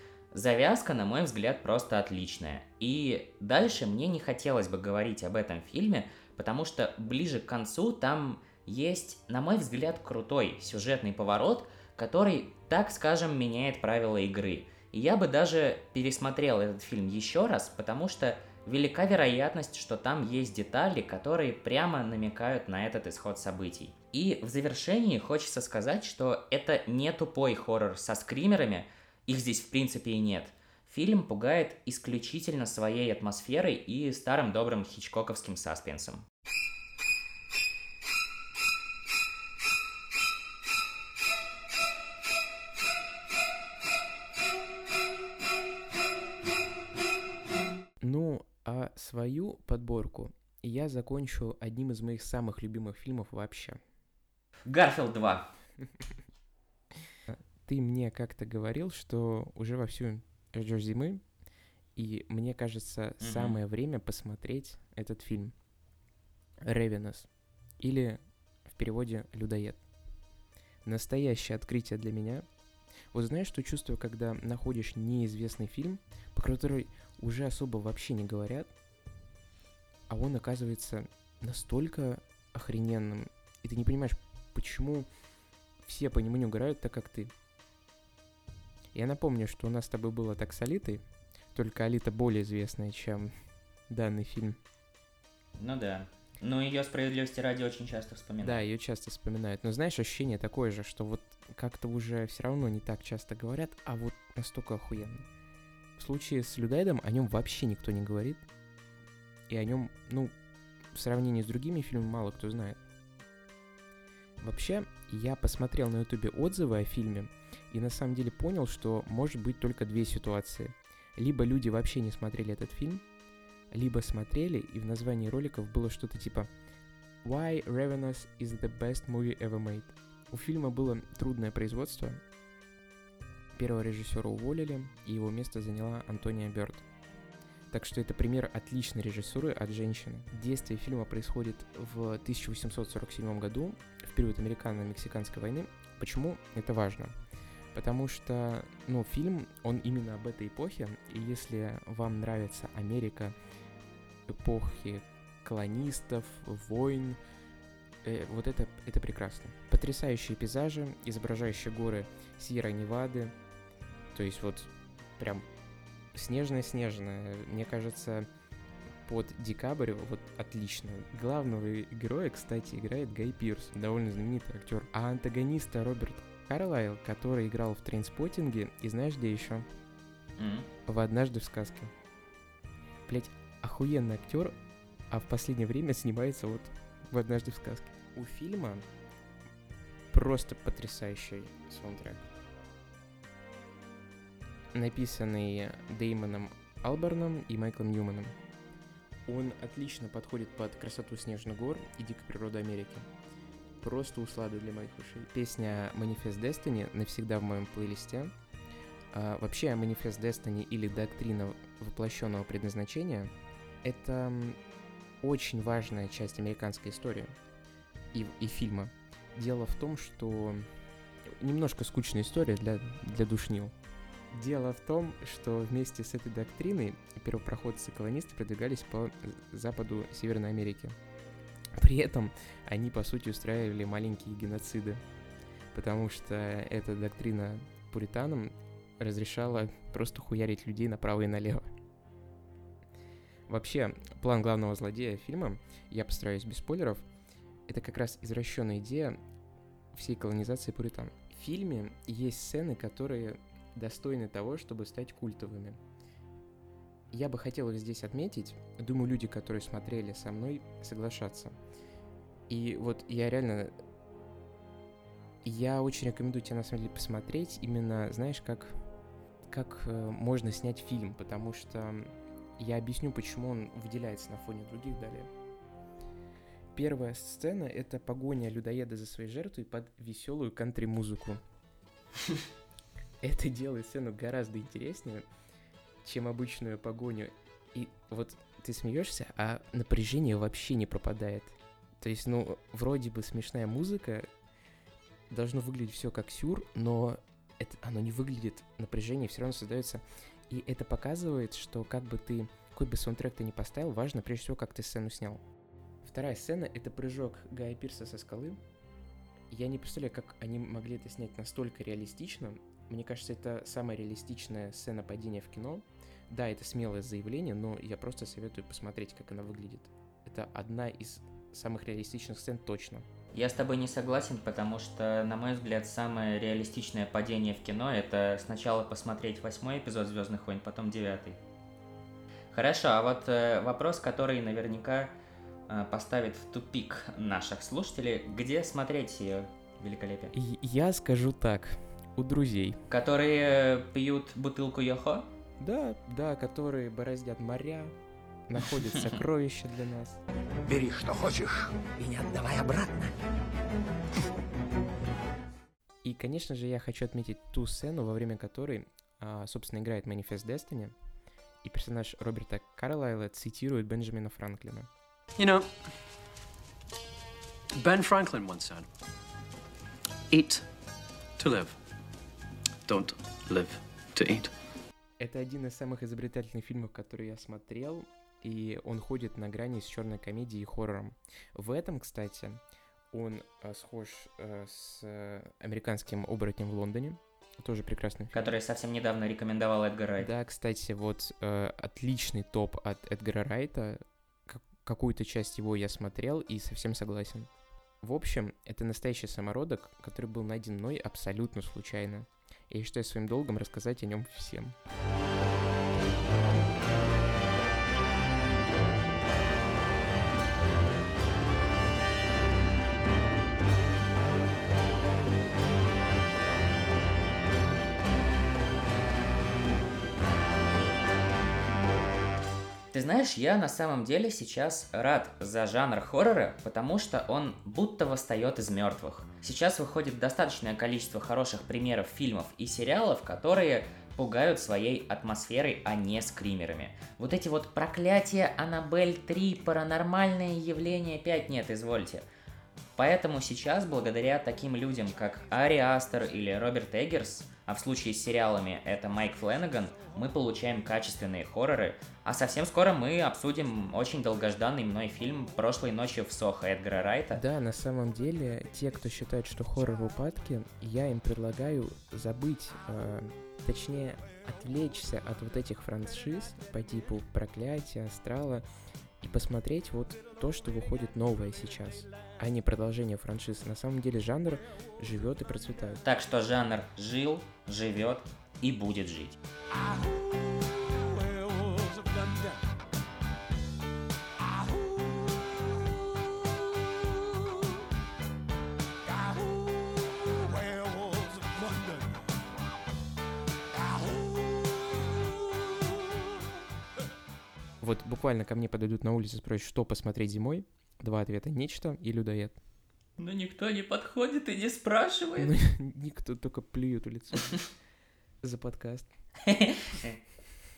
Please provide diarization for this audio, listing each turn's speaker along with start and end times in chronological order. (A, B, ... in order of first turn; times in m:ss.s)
0:00.3-0:36.3 A
0:48.0-0:53.8 B
0:54.7-0:55.5 A
0:57.3-1:01.2 B
1:02.0-1:05.5 B
1:03.2-1:03.6 A
1:06.6-1:07.3 B
1:07.8-1:09.8 B
1:10.8-1:12.5 B
1:13.1-1:18.7 B
1:20.1-1:25.1 B
1:25.8-1:27.3 B
1:28.9-1:31.0 B
1:31.5-1:33.3 B
1:33.9-1:34.6 B
1:35.6-1:38.6 A
1:38.4-1:45.3 B
1:46.0-1:48.4 B
1:49.5-1:50.4 B
1:50.9-1:52.8 B
1:54.4-2:03.0 B
2:03.7-2:06.5 B
2:07.2-2:12.2 B
2:13.6-2:16.8 B
2:17.7-2:27.2 B
2:27.7-2:33.4 B
2:34.3-2:37.2 B
2:38.0-2:43.4 B
2:44.1-2:45.5 B
2:46.1-2:48.3 B
2:49.0-2:59.7 B
3:00.4-3:00.7 A
3:00.9-3:01.9 B
3:03.1-3:04.6 B
3:05.1-3:08.9 B
3:10.1-3:12.3 B
3:14.7-3:18.4 B
3:19.3-3:23.1 B
3:23.8-3:28.3 B
3:29.1-3:33.3 B
3:33.8-3:34.6 B
3:35.2-3:37.4 B
3:38.1-3:40.7 B
3:41.3-3:43.8 B
3:44.3-3:51.0 B
3:51.8-3:55.0 B
3:55.7-4:01.7 B
4:03.5-4:07.0 B
4:07.7-4:09.2 B
4:09.9-4:15.8 B
4:17.1-4:21.6 B
4:22.5-4:23.7 B
4:25.4-4:28.8 B
4:29.5-4:35.3 B
4:36.7-4:41.4 B
4:43.2-4:45.3 B
4:46.0-4:54.3 B
4:55.3-5:05.4 B
5:06.0-5:08.6 B
5:09.5-5:23.1 B
5:23.3-5:31.4 A
5:32.5-5:35.1 A
5:35.7-5:40.3 A
5:40.3-5:42.8 B
5:42.9-5:45.3 A
5:45.6-5:48.0 B
5:48.5-5:50.2 B
5:50.6-5:53.2 C
5:56.0-6:01.0 B
6:01.6-6:04.9 B
6:05.4-6:05.7 D
6:07.7-6:08.9 D
6:10.3-6:10.7 D
6:11.4-6:11.8 D
6:12.9-6:14.5 D
6:15.2-6:28.5 B
6:28.3-6:30.3 A
6:30.2-6:37.5 B
6:38.0-6:44.8 B
7:02.9-7:22.3 A
7:23.0-7:37.4 A
7:37.3-7:48.6 B
7:49.2-7:56.0 B
7:56.0-7:59.4 A
8:17.8-8:22.6 B
8:23.2-8:25.6 A
8:25.4-8:27.7 B
8:28.4-8:29.1 B
8:29.4-8:30.2 A